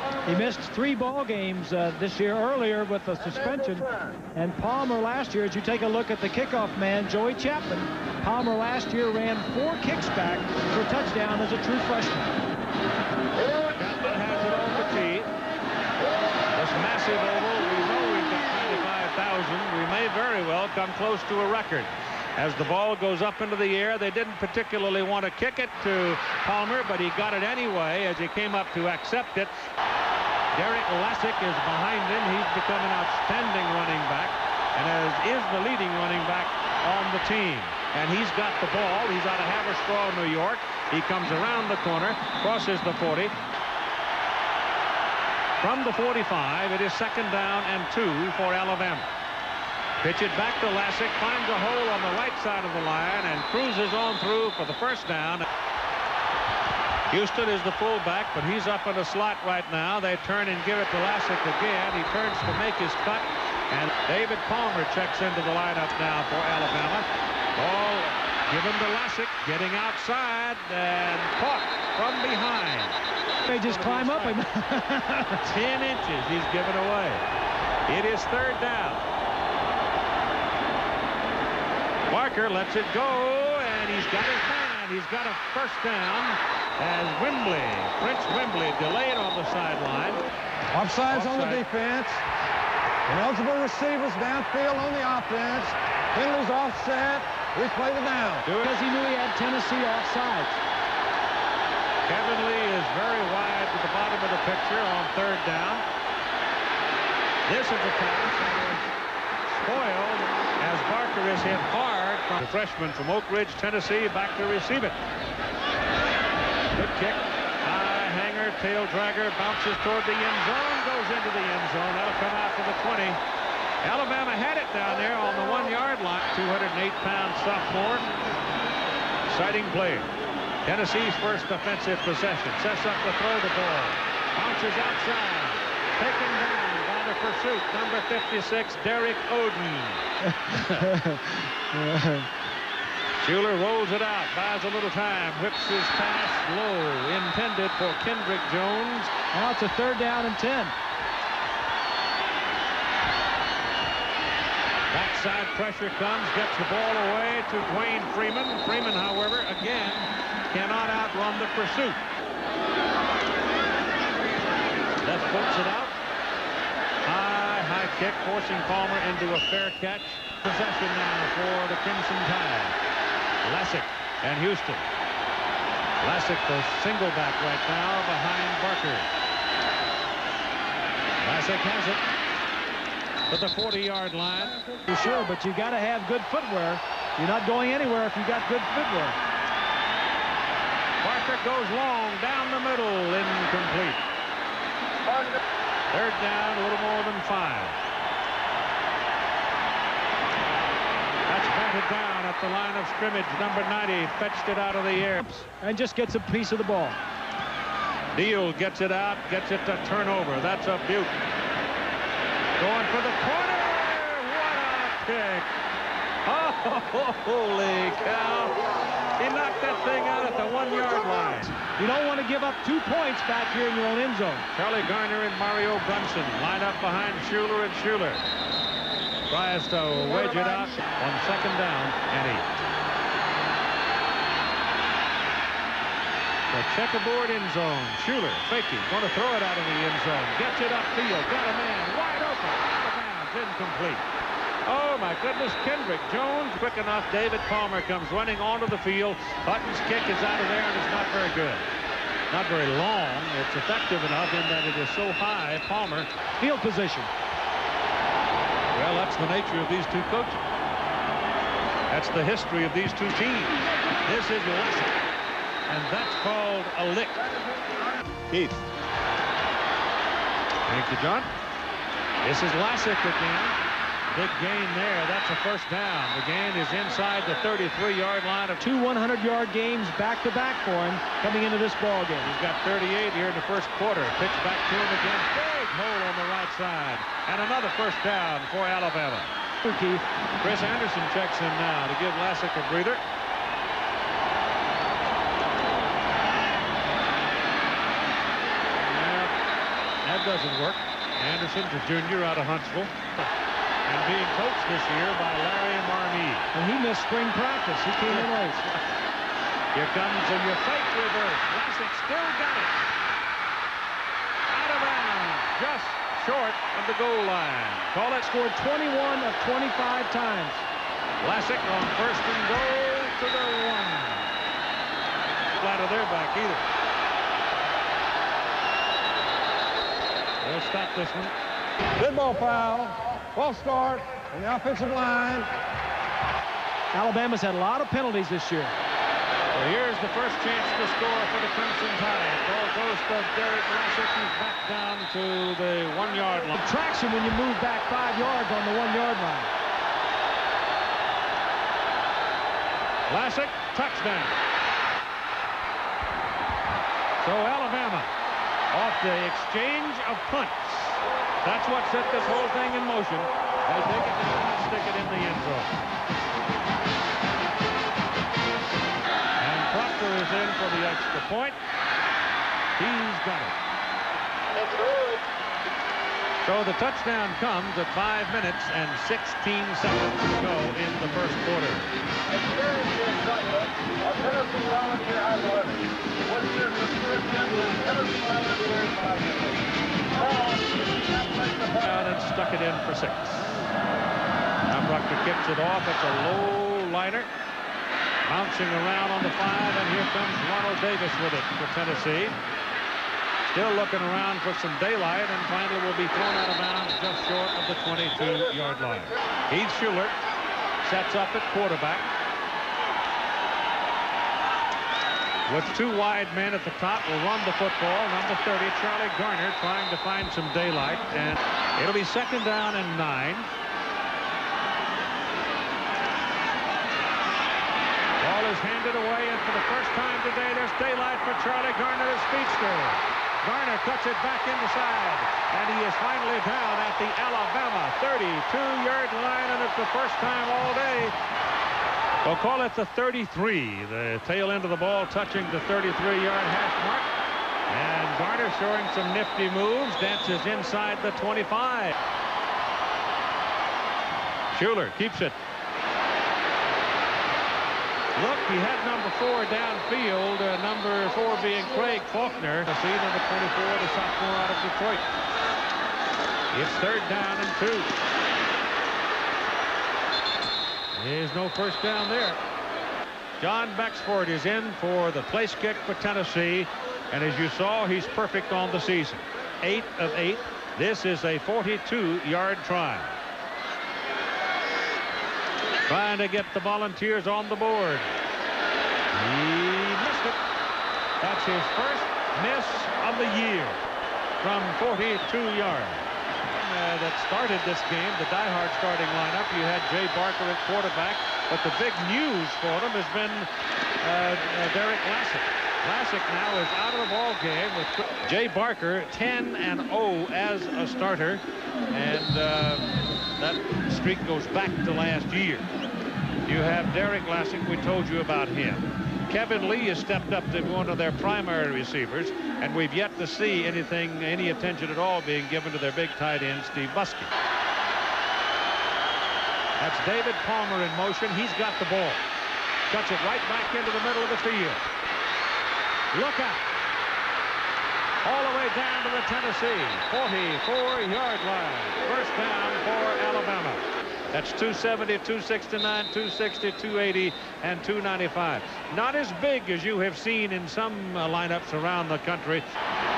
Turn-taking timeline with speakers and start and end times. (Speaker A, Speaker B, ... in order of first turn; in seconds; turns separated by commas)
Speaker A: 0.3-12.3, Speaker B: 13.7-15.3, Speaker B: 16.5-29.5, Speaker B: 30.6-43.3, Speaker B: 45.6-49.1, Speaker B: 50.0-55.5, Speaker B: 57.1-73.0, Speaker A: 73.5-75.5, Speaker B: 73.6-74.4, Speaker B: 75.4-77.3, Speaker B: 77.9-79.0, Speaker B: 82.1-90.2, Speaker C: 90.7-92.2, Speaker B: 91.1-91.6, Speaker C: 93.0-98.5, Speaker B: 98.4-98.7, Speaker A: 98.6-100.6, Speaker B: 102.0-105.8, Speaker B: 107.5-108.9, Speaker B: 109.5-115.0, Speaker B: 116.7-123.2, Speaker B: 123.8-128.1, Speaker B: 129.3-130.1, Speaker B: 130.7-140.9, Speaker A: 140.5-142.3, Speaker B: 143.2-149.1, Speaker A: 149.3-150.7, Speaker B: 154.9-162.0, Speaker B: 165.0-165.9, Speaker B: 167.0-172.8, Speaker B: 173.4-174.8, Speaker B: 176.0-179.1, Speaker B: 181.2-182.0, Speaker B: 183.3-184.6, Speaker A: 184.9-189.2, Speaker B: 191.0-194.0, Speaker B: 195.9-197.8, Speaker B: 201.3-205.3, Speaker A: 205.4-207.0, Speaker B: 208.1-211.2, Speaker B: 212.6-215.5, Speaker B: 216.2-218.7, Speaker B: 219.2-221.6, Speaker A: 221.8-224.5, Speaker B: 224.5-228.2, Speaker B: 229.3-232.5, Speaker B: 236.5-244.0, Speaker B: 244.7-251.7, Speaker B: 252.3-256.1, Speaker A: 256.4-257.1, Speaker B: 258.7-260.4, Speaker B: 261.9-265.0, Speaker B: 265.7-267.2, Speaker B: 268.3-268.6, Speaker B: 270.6-271.3, Speaker B: 272.2-273.6, Speaker B: 274.1-278.6, Speaker A: 278.6-282.3, Speaker B: 282.2-289.3, Speaker A: 289.6-290.0, Speaker B: 290.4-293.0, Speaker B: 298.8-299.3, Speaker B: 300.0-303.1, Speaker B: 303.9-306.5, Speaker A: 306.5-308.6, Speaker B: 308.1-308.8, Speaker B: 309.7-312.8, Speaker B: 314.5-318.3, Speaker A: 318.2-320.6, Speaker B: 321.2-324.2, Speaker B: 325.6-326.6, Speaker B: 330.4-331.3, Speaker C: 332.0-335.5, Speaker A: 336.9-338.7, Speaker B: 339.5-346.5, Speaker A: 346.5-349.5, Speaker B: 353.1-354.4, Speaker B: 357.2-358.1, Speaker B: 358.7-365.8, Speaker B: 369.4-371.6, Speaker B: 372.8-373.6, Speaker B: 376.4-381.9, Speaker B: 391.5-393.6, Speaker B: 394.7-397.3, Speaker B: 398.2-402.4, Speaker B: 403.5-410.1, Speaker B: 410.8-412.1, Speaker B: 415.5-423.5, Speaker B: 428.2-441.1, Speaker B: 442.2-447.1, Speaker B: 447.7-451.9, Speaker B: 454.5-455.4, Speaker B: 458.1-465.1, Speaker B: 466.5-467.9, Speaker B: 471.0-472.4, Speaker B: 473.4-483.1, Speaker B: 485.9-488.1, Speaker B: 489.1-490.4, Speaker B: 491.2-493.8, Speaker B: 494.4-496.0, Speaker B: 496.6-503.5, Speaker B: 504.0-515.7, Speaker B: 516.5-527.3, Speaker B: 529.8-532.2, Speaker B: 532.9-534.8, Speaker B: 536.1-536.6, Speaker B: 538.2-552.6